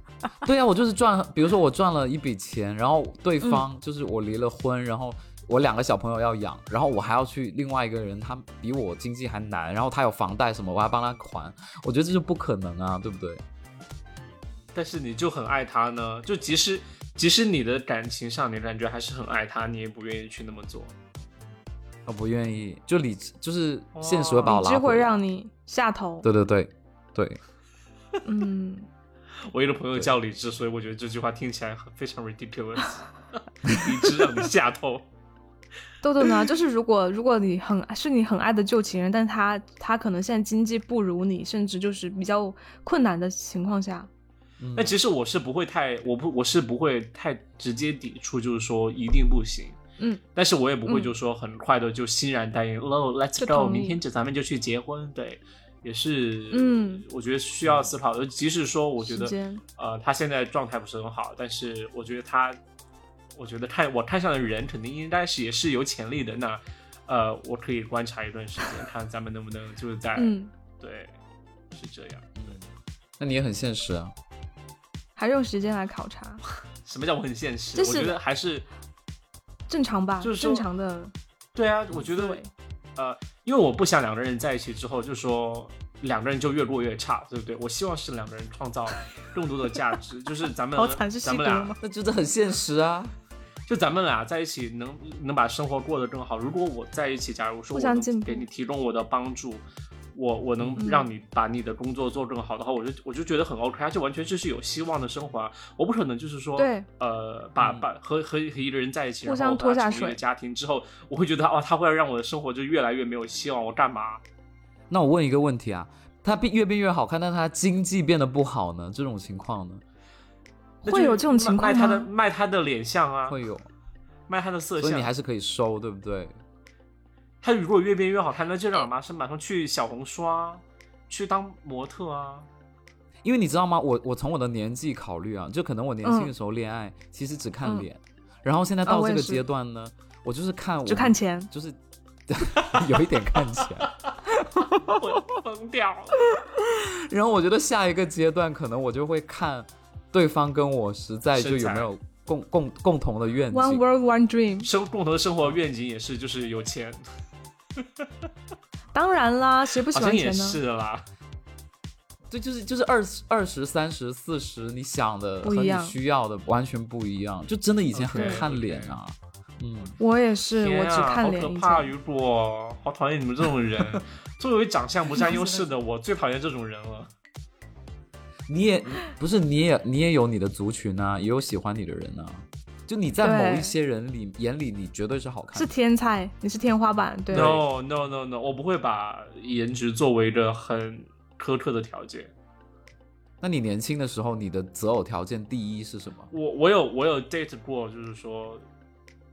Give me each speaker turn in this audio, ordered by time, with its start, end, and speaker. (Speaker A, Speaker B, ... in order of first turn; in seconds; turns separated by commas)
Speaker A: 0.4-13.4, Speaker B: 14.7-20.9, Speaker A: 22.1-25.1, Speaker B: 23.9-24.6, Speaker C: 24.4-26.3, Speaker A: 26.2-27.4, Speaker C: 28.2-28.9, Speaker B: 29.5-35.0, Speaker C: 36.0-44.1, Speaker A: 44.6-45.0, Speaker B: 44.7-49.8, Speaker B: 50.3-62.6, Speaker C: 50.9-51.1, Speaker C: 53.4-54.0, Speaker C: 56.5-57.0, Speaker A: 57.6-57.9, Speaker C: 59.0-59.6, Speaker B: 63.4-71.1, Speaker C: 70.2-70.5, Speaker B: 71.7-72.6, Speaker A: 72.4-72.7, Speaker A: 73.2-74.1, Speaker C: 75.2-76.4, Speaker B: 76.8-78.7, Speaker C: 77.8-78.2, Speaker C: 79.7-81.1, Speaker B: 80.2-80.7, Speaker B: 81.5-82.4, Speaker C: 82.1-82.5, Speaker B: 83.0-91.8, Speaker C: 90.7-91.8, Speaker A: 91.8-93.1, Speaker B: 93.7-114.2, Speaker C: 97.7-98.4, Speaker C: 100.8-101.1, Speaker C: 106.6-106.8, Speaker A: 107.6-107.8, Speaker C: 109.2-110.2, Speaker A: 114.9-119.8, Speaker C: 120.8-122.1, Speaker B: 120.8-123.4, Speaker A: 123.3-123.7, Speaker B: 124.3-125.1, Speaker A: 124.8-126.4, Speaker B: 127.4-132.5, Speaker A: 133.2-145.1, Speaker C: 136.0-136.3, Speaker C: 138.8-139.4, Speaker C: 140.9-141.5, Speaker B: 144.6-146.3, Speaker A: 146.4-153.8, Speaker B: 151.3-151.9, Speaker C: 153.5-154.7, Speaker B: 154.6-157.0, Speaker B: 157.8-158.0, Speaker C: 158.9-160.6, Speaker B: 159.9-161.0, Speaker A: 162.3-169.9, Speaker C: 165.4-165.9, Speaker B: 167.9-168.9, Speaker C: 168.1-168.4, Speaker C: 170.0-171.9, Speaker B: 170.6-177.1, Speaker A: 175.2-175.7, Speaker A: 178.5-185.7, Speaker C: 183.2-183.7, Speaker C: 185.5-187.6, Speaker B: 187.3-192.3, Speaker A: 187.3-187.6, Speaker A: 193.4-196.3, Speaker B: 196.3-198.6